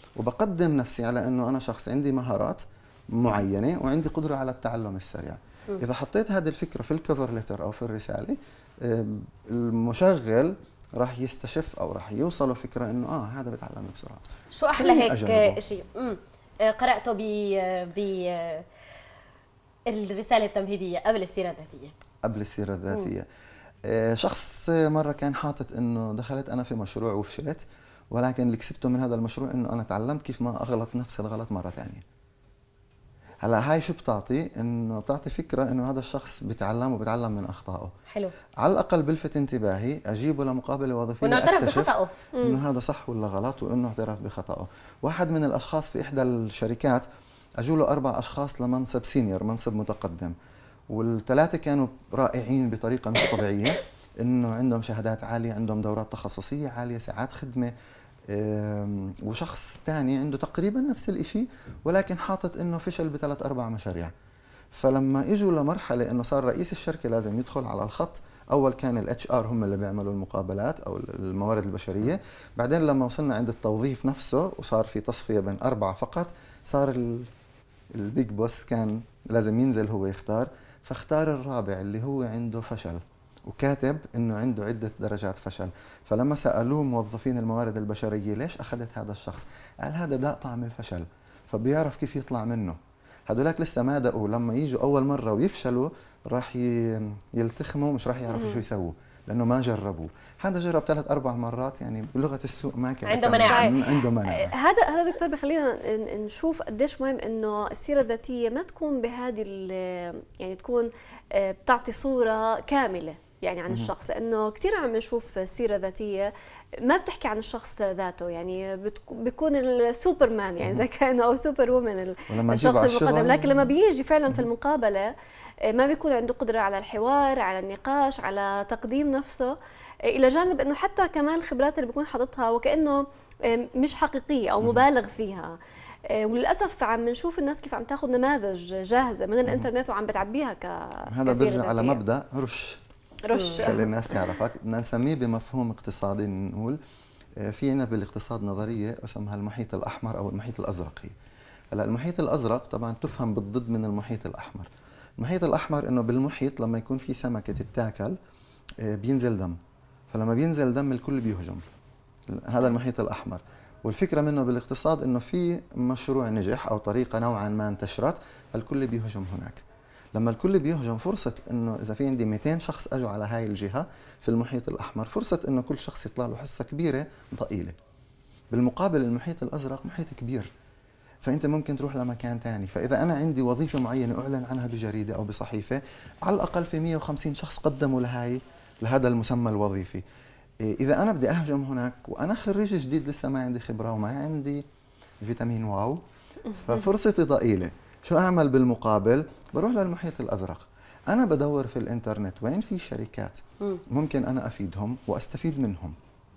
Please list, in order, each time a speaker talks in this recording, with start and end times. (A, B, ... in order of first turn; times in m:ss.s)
0:00.2-0:02.6 A
0:03.1-0:14.2 A
0:14.5-0:18.6 B
0:14.8-0:15.6 A
0:19.9-0:21.9 B
0:22.2-0:23.3 A
0:23.9-0:32.0 A
0:33.4-0:37.9 A
0:38.6-0:47.0 A
0:41.2-0:42.1 B
0:47.6-0:50.3 A
0:50.9-0:57.7 A
0:58.3-1:04.1 A
1:04.7-1:17.3 A
1:17.9-1:44.5 A
1:38.3-1:38.6 C
1:43.1-1:43.7 B
1:43.5-1:56.3 C
1:56.8-2:05.1 C
2:02.3-2:03.7 A
2:05.6-2:22.0 C
2:21.1-2:22.8 A
2:23.2-2:23.9 C
2:23.3-2:23.6 B
2:23.6-2:26.8 A
2:27.4-2:31.1 A
2:31.7-2:38.2 A
2:38.8-2:39.6 A
2:40.1-2:41.6 A
2:42.3-2:49.6 A
2:50.1-2:57.7 A
2:58.5-3:00.5 A
3:01.2-3:10.0 A
3:10.6-3:14.6 A
3:15.2-3:16.0 A
3:16.5-3:23.4 A
3:23.9-3:25.9 A